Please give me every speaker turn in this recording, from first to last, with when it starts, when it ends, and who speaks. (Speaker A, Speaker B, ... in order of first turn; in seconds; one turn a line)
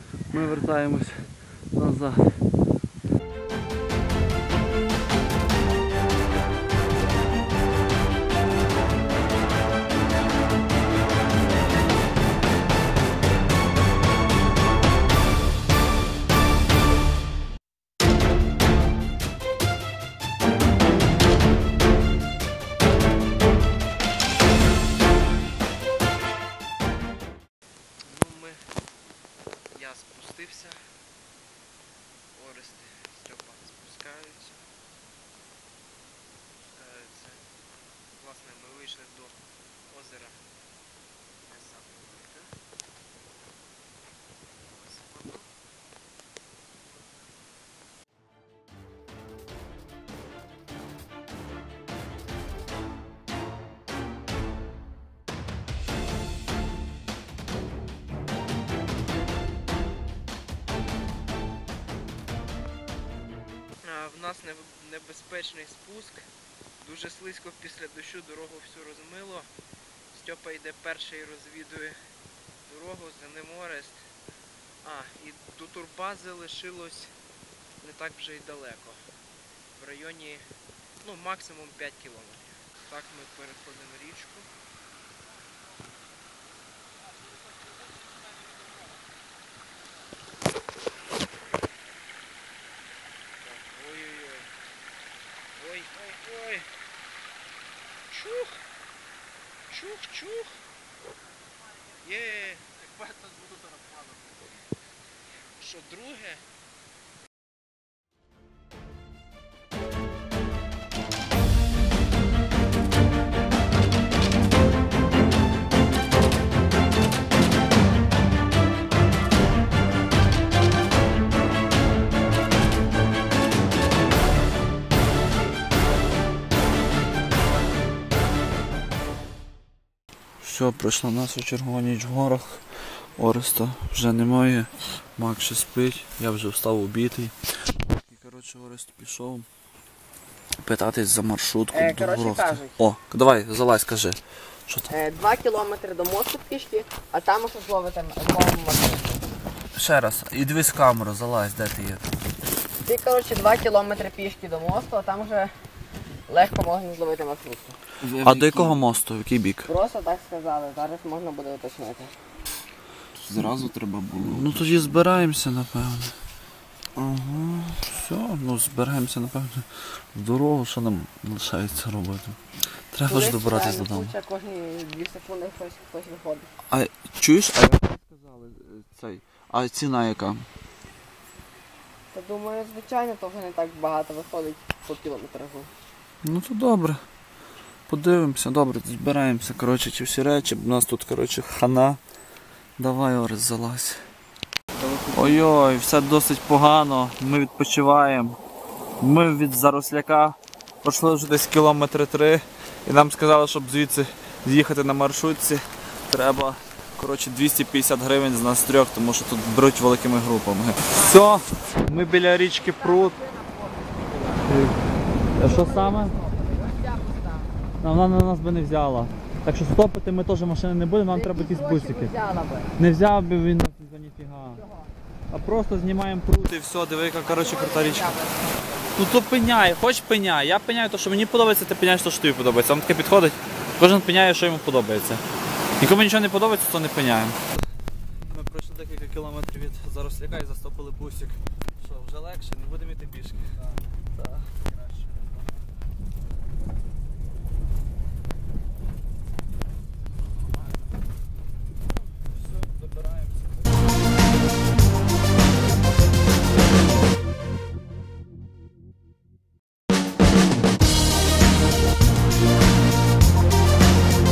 Speaker A: 0.3-2.4
Speaker B: 28.1-28.6
Speaker B: 29.7-30.8
Speaker B: 32.3-34.7
Speaker B: 36.8-37.5
Speaker B: 38.1-39.4
Speaker B: 39.9-40.4
Speaker B: 41.5-42.5
Speaker B: 44.7-45.5
Speaker B: 63.8-66.2
Speaker B: 66.8-69.5
Speaker B: 70.1-72.0
Speaker B: 72.7-74.0
Speaker B: 74.8-77.1
Speaker B: 77.8-79.0
Speaker B: 79.7-80.5
Speaker B: 81.0-84.5
Speaker B: 93.4-94.5
Speaker B: 95.6-96.7
Speaker B: 98.1-98.6
Speaker B: 99.7-100.6
Speaker B: 102.0-102.8
Speaker B: 105.6-106.4
Speaker A: 130.4-132.6
Speaker A: 133.2-137.3
Speaker A: 138.1-139.4
Speaker A: 140.6-144.9
Speaker C: 141.7-142.8
Speaker C: 144.9-149.2
Speaker A: 149.7-152.0
Speaker C: 152.8-155.5
Speaker C: 156.3-157.8
Speaker B: 158.0-158.8
Speaker A: 158.2-159.7
Speaker C: 159.7-162.1
Speaker B: 163.1-164.8
Speaker A: 164.2-166.1
Speaker A: 167.0-172.4
Speaker A: 172.9-174.1
Speaker C: 173.1-176.5
Speaker A: 176.7-180.4
Speaker C: 182.1-185.7
Speaker A: 186.2-187.0
Speaker A: 187.9-192.0
Speaker A: 192.8-194.0
Speaker B: 194.8-195.3
Speaker A: 195.1-198.4
Speaker A: 199.0-213.2
Speaker C: 212.5-214.5
Speaker A: 214.4-216.1
Speaker C: 215.4-217.5
Speaker A: 217.8-222.1
Speaker C: 221.1-222.7
Speaker A: 222.8-224.6
Speaker C: 224.5-224.9
Speaker A: 225.3-228.2
Speaker C: 227.2-229.0
Speaker A: 228.9-235.2
Speaker A: 235.8-237.4
Speaker A: 238.3-243.5
Speaker A: 244.1-245.0
Speaker A: 252.2-253.6